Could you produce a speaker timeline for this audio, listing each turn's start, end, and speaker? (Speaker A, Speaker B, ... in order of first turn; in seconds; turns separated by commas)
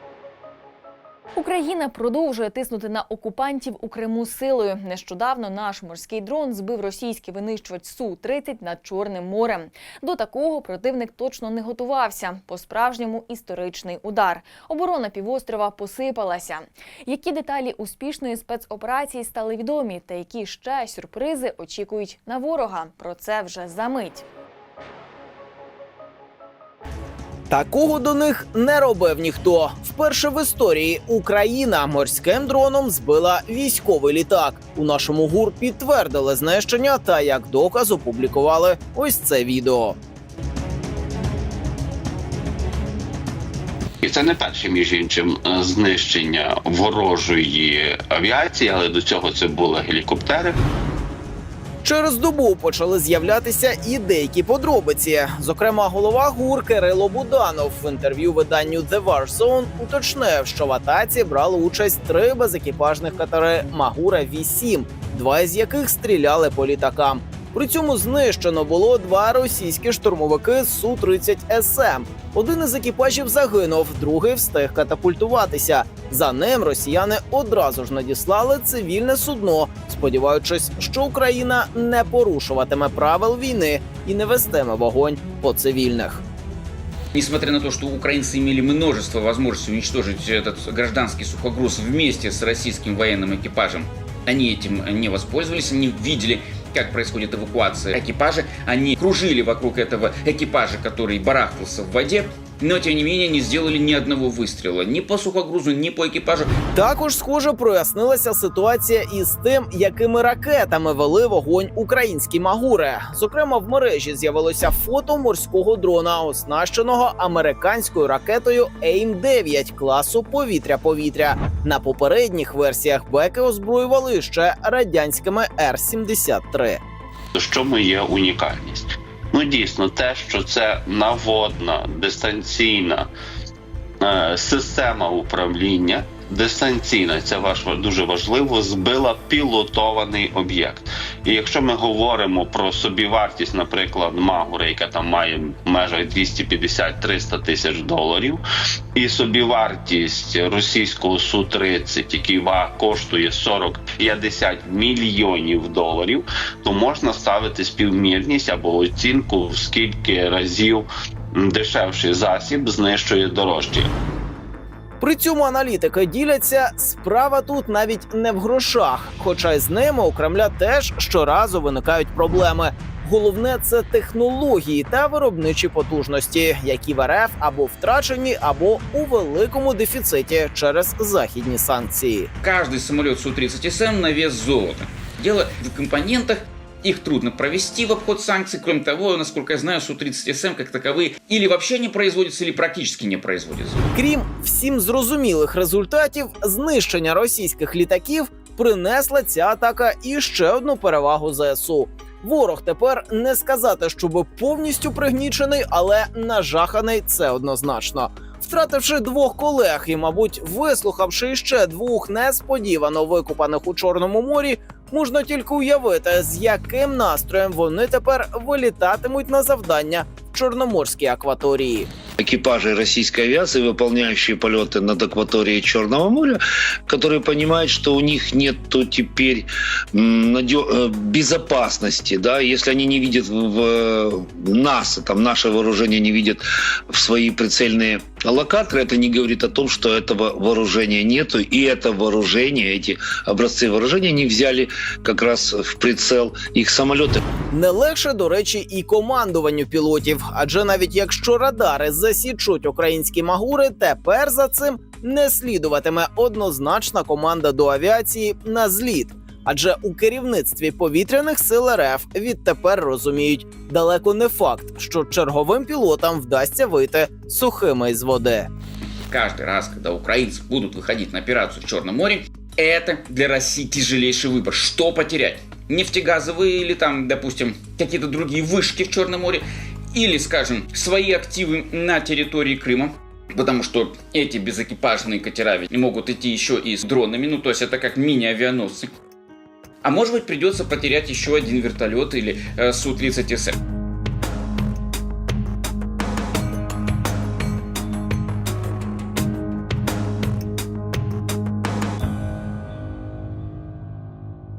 Speaker A: 1.3-24.2, Speaker B: 27.5-40.0, Speaker C: 44.0-50.6, Speaker B: 51.8-86.2, Speaker D: 87.1-106.5, Speaker B: 106.7-126.8, Speaker C: 127.3-133.1, Speaker C: 134.0-148.4, Speaker C: 148.9-163.9, Speaker B: 165.0-182.3, Speaker D: 182.4-193.8, Speaker B: 193.9-221.9, Speaker E: 222.2-247.2, Speaker B: 247.5-268.5, Speaker D: 269.1-288.9, Speaker D: 289.8-293.6